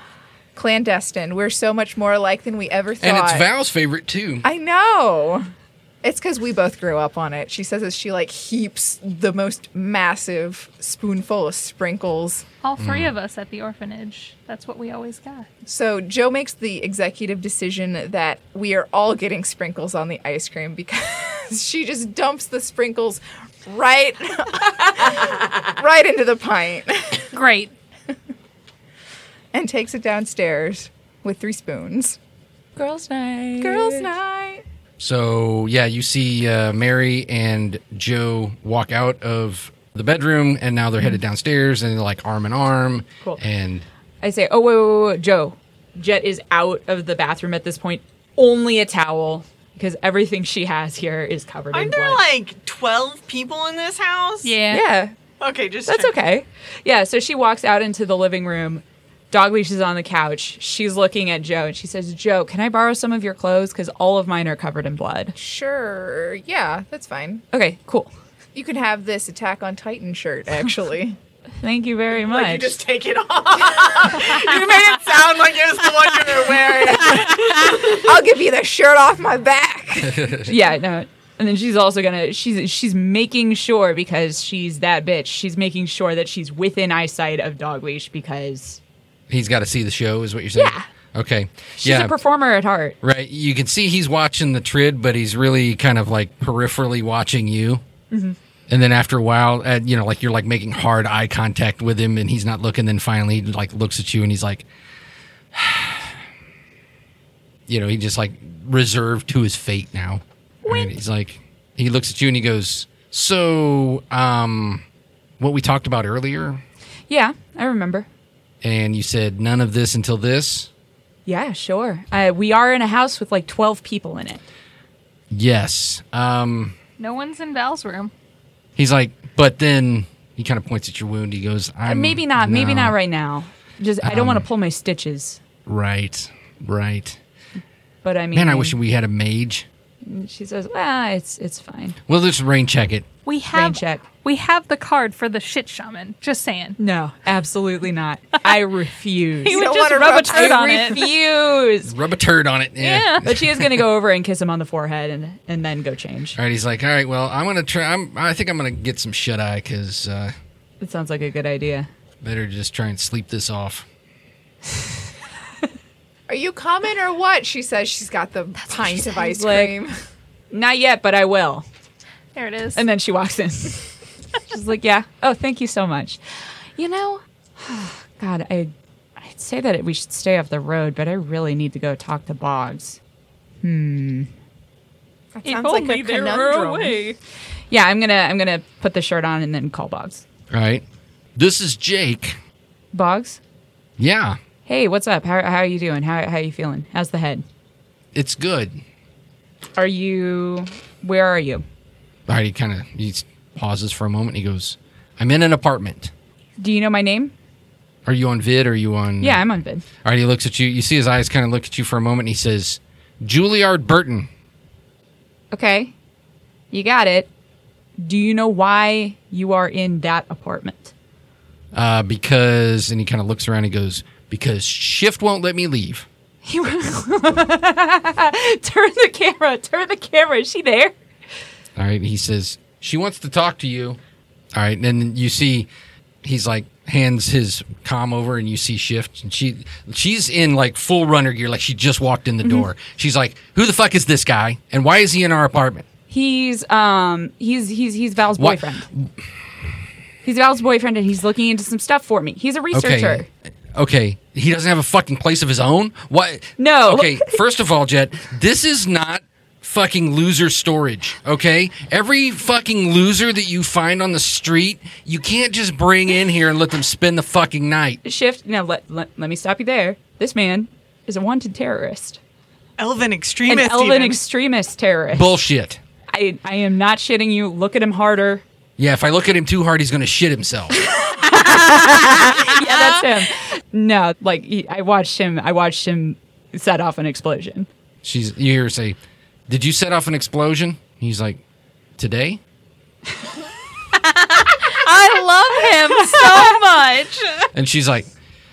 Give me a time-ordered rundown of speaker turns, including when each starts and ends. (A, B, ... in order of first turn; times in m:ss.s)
0:00.5-0:03.4 A
0:03.0-0:04.4 B
0:04.4-0:05.5 A
0:06.0-0:12.4 A
0:12.6-0:15.5 C
0:12.8-0:13.1 B
0:15.6-0:27.3 A
0:27.3-0:27.7 C
0:29.5-0:32.2 A
0:32.8-0:34.1 D
0:32.8-0:34.6 A
0:35.0-0:43.8 B
0:44.2-0:52.2 D
0:51.7-0:54.6 E
0:54.4-0:54.8 C
0:54.7-0:55.1 D
0:55.4-0:56.2 E
0:55.8-1:05.4 D
1:05.4-1:07.4 A
1:07.5-1:08.1 D
1:08.5-1:11.2 A
1:11.6-1:12.8 D
1:12.1-1:18.0 E
1:17.8-1:20.3 A
1:20.0-1:20.5 B
1:20.4-1:28.8 D
1:29.3-1:32.2 B
1:30.5-1:30.9 D
1:31.8-1:33.0 D
1:33.0-1:37.8 B
1:38.1-1:38.4 D
1:38.7-1:44.6 B
1:45.5-1:46.2 B
1:47.7-1:54.8 B
1:50.6-1:50.9 D
1:55.4-1:56.6 B
1:57.1-1:58.1 D
1:58.6-2:00.7 B
2:01.2-2:04.4 D
2:05.3-2:06.8 B
2:07.0-2:08.1 C
2:08.8-2:13.0 B
2:11.8-2:15.4 D
2:14.0-2:14.4 B
2:15.6-2:17.2 B
2:18.0-2:18.8 D
2:18.3-2:19.7 B
2:20.0-2:22.0 D
2:22.1-2:23.0 B
2:23.2-2:26.8 C
2:23.5-2:24.0 D
2:26.8-2:31.9 D
2:29.4-2:31.0 C
2:29.5-2:31.0 A
2:31.8-2:33.9 B
2:32.8-2:33.2 C
2:33.1-2:36.4 D
2:36.4-2:40.3 B
2:40.8-2:41.9 D
2:42.2-2:43.8 B
2:46.3-2:50.0 A
2:49.0-2:49.7 D
2:50.5-2:51.6 D
2:52.3-2:52.8 C
2:52.7-2:53.9 D
2:54.5-3:03.0 D
3:03.6-3:04.3 D
3:05.3-3:07.0 A
3:05.4-3:07.2 D
3:07.7-3:10.2 D
3:10.5-3:10.8 B
3:11.4-3:12.4 B
3:12.9-3:13.4 D
3:14.0-3:14.4 B
3:14.6-3:17.4 D
3:18.1-3:18.8 B
3:19.8-3:21.6 D
3:22.3-3:26.1 B
3:26.6-3:27.3 D
3:28.0-3:29.4 B
3:29.2-3:29.8 D
3:30.0-3:34.3 B
3:35.5-3:35.9 D
3:36.7-3:37.3 D
3:38.0-3:40.9 D
3:41.7-3:46.1 B
3:46.4-3:50.9 D
3:51.8-3:54.0 B
3:54.5-3:55.7 B
3:56.2-4:05.8 B
4:06.1-4:08.9 D
4:08.4-4:09.1 B
4:10.2-4:13.3 D
4:12.7-4:28.0 B
4:16.6-4:17.4 D
4:28.0-4:32.2 D
4:32.8-4:34.2 E
4:33.5-4:35.3 D
4:35.1-4:35.8 B
4:36.1-4:38.4 D
4:38.8-4:40.8 B
4:40.9-4:47.7 D
4:48.0-4:49.0 B
4:49.5-4:51.4 B
4:52.0-4:52.4 B
4:54.5-4:57.1 D
4:54.5-4:57.5 C
4:57.5-4:58.1 B